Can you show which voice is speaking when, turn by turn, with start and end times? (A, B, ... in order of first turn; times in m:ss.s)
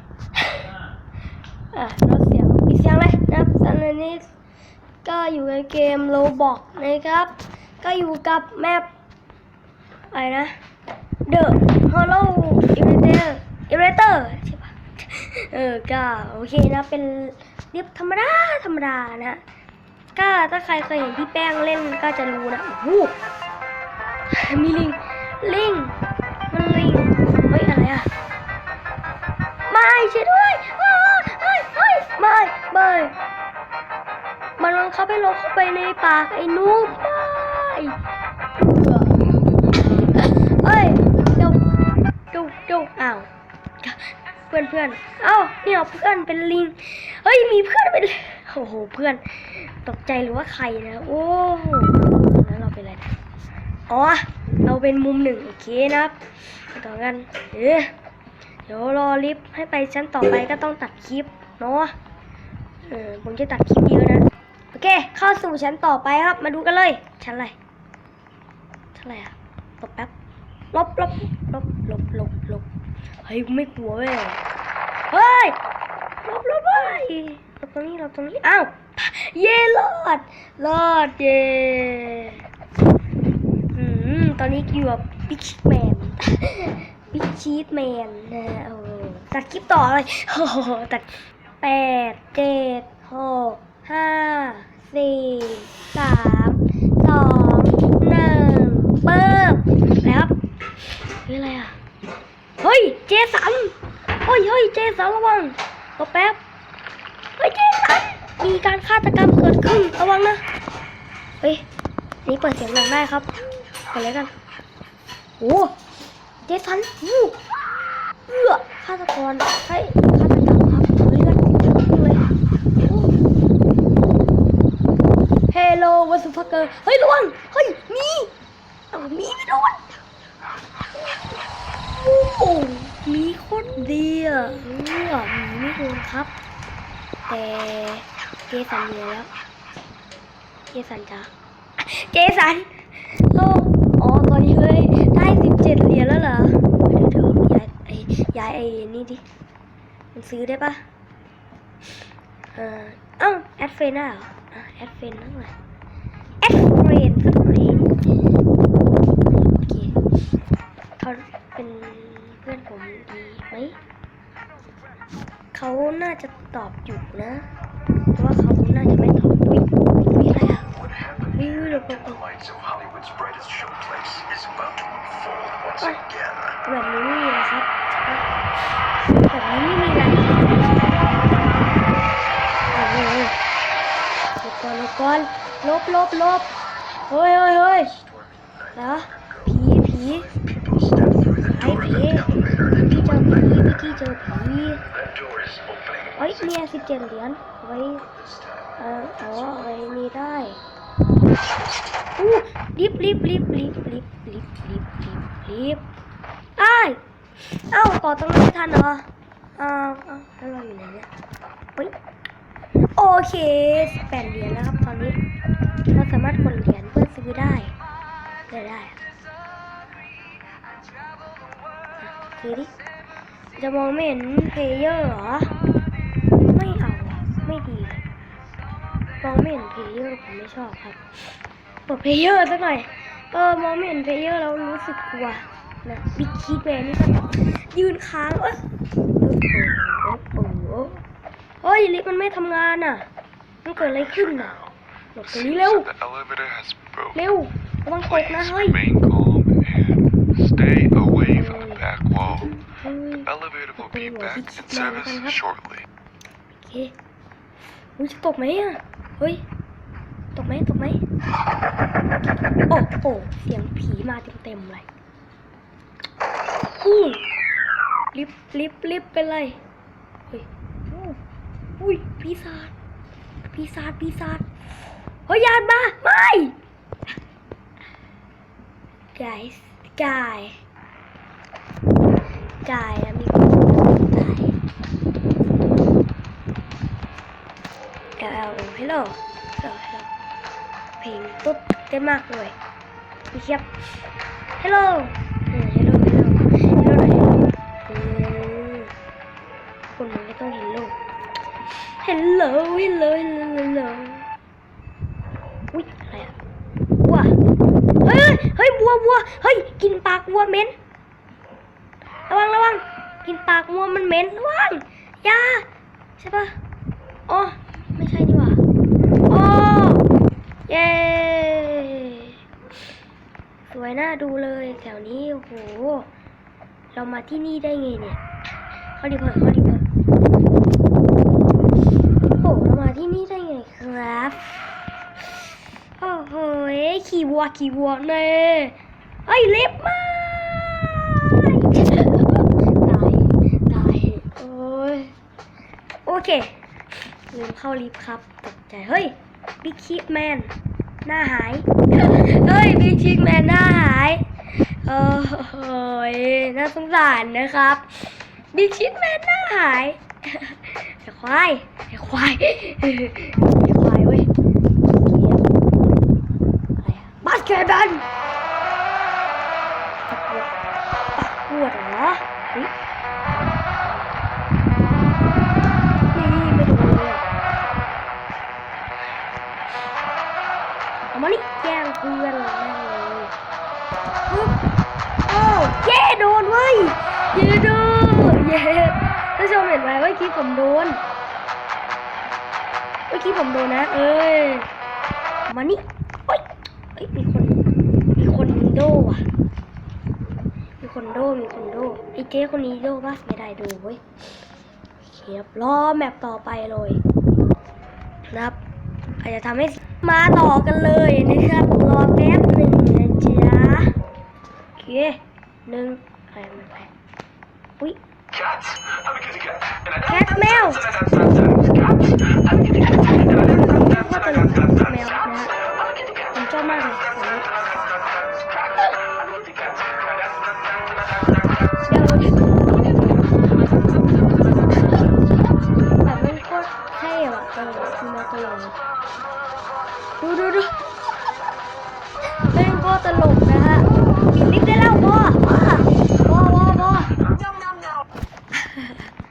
0:00.4-0:00.7 A
0:01.7-0:04.3 A
0:05.0-0:08.9 A
0:10.1-0:10.6 A
0:11.3-0:19.4 A
0:20.2-0:23.2 A
0:24.3-0:26.0 A
0:26.5-0:28.1 A
0:29.7-0:33.1 A
0:34.6-0:38.0 A
0:38.6-0:39.4 A
0:40.0-0:41.6 A
0:42.3-0:43.3 A
0:43.8-0:53.2 A
0:53.9-0:57.9 A
0:58.7-1:01.9 A
1:02.8-1:07.6 A
1:08.9-1:10.1 A
1:10.7-1:12.7 A
1:13.2-1:14.4 A
1:15.1-1:15.6 A
1:16.2-1:22.4 A
1:23.7-1:40.4 A
1:41.2-1:41.8 A
1:42.6-1:46.4 A
1:47.4-1:50.4 A
1:52.2-1:53.3 A
1:53.9-1:54.4 A
1:55.4-1:55.8 A
1:56.4-1:57.4 A
1:58.3-2:02.3 A
2:02.8-2:03.1 A
2:05.5-2:08.3 A
2:08.9-2:09.9 A
2:11.9-2:16.3 A
2:17.3-2:19.3 A
2:20.7-2:29.2 A
2:30.1-2:30.8 A
2:32.6-2:35.5 A
2:36.4-2:38.0 A
2:39.3-2:40.0 A
2:41.0-2:43.8 A
2:45.5-2:47.5 A
2:48.2-2:50.8 A
2:50.8-2:56.6 B
2:51.4-2:52.2 A
2:56.6-2:58.3 A
2:59.2-3:01.0 A
3:02.7-3:03.4 A
3:04.4-3:06.5 A
3:07.1-3:08.0 A
3:08.0-3:09.5 B
3:08.7-3:10.3 A
3:10.3-3:13.2 B
3:11.4-3:14.8 A
3:14.9-3:16.3 B
3:16.2-3:18.1 A
3:18.1-3:18.7 B
3:18.8-3:20.6 A
3:22.2-3:25.8 A
3:26.6-3:29.0 A
3:29.6-3:31.1 A
3:33.0-3:35.2 A
3:35.9-3:37.7 A
3:38.5-3:39.0 A
3:42.0-3:42.7 A
3:43.6-3:45.5 A
3:46.5-3:48.0 A
3:49.2-3:58.6 A
3:59.2-4:01.0 A
4:01.6-4:03.1 A
4:03.6-4:05.9 A
4:04.0-4:04.8 C
4:05.3-4:07.2 C
4:07.1-4:08.8 A
4:08.1-4:12.6 C
4:11.3-4:15.4 A
4:13.2-4:15.9 C
4:16.5-4:17.0 A
4:18.0-4:19.4 A
4:20.4-4:21.0 A
4:22.7-4:24.9 A
4:26.8-4:27.2 A
4:28.1-4:29.6 A
4:30.3-4:31.2 A
4:31.8-4:32.7 A
4:33.5-4:34.5 A
4:35.3-4:36.6 A
4:39.2-4:40.6 A
4:42.6-4:44.6 A
4:48.2-4:50.1 A
4:51.0-4:52.6 A
4:53.3-4:54.0 A
4:54.6-4:58.9 A
4:59.9-5:01.0 A
5:01.9-5:04.3 A
5:05.7-5:06.3 A
5:07.0-5:07.3 A
5:08.0-5:10.7 A
5:12.3-5:15.6 A
5:16.2-5:16.6 A
5:17.3-5:18.6 A
5:19.3-5:20.1 A
5:20.7-5:22.3 A
5:23.7-5:26.1 A
5:26.9-5:28.2 A
5:28.9-5:29.8 A
5:32.4-5:34.6 A
5:36.0-5:45.1 A
5:46.1-5:46.6 A
5:47.3-5:50.5 A
5:51.0-6:04.3 A
6:04.9-6:05.9 A
6:06.8-6:08.0 A
6:10.1-6:10.5 A
6:11.1-6:12.7 A
6:16.1-6:17.2 A
6:21.1-6:23.3 A
6:24.3-6:24.6 A
6:25.3-6:31.0 A
6:33.1-6:34.7 A
6:35.5-6:37.6 A
6:38.2-6:39.2 A
6:40.8-6:44.0 A
6:45.0-6:47.0 A
6:48.3-6:48.6 A
6:49.2-6:53.9 A
6:54.8-6:56.9 A
7:00.0-7:01.1 A
7:03.0-7:05.6 A
7:06.3-7:07.5 A
7:11.9-7:12.5 A
7:16.0-7:18.8 A
7:20.2-7:20.8 A
7:22.5-7:27.3 A
7:28.5-7:29.1 A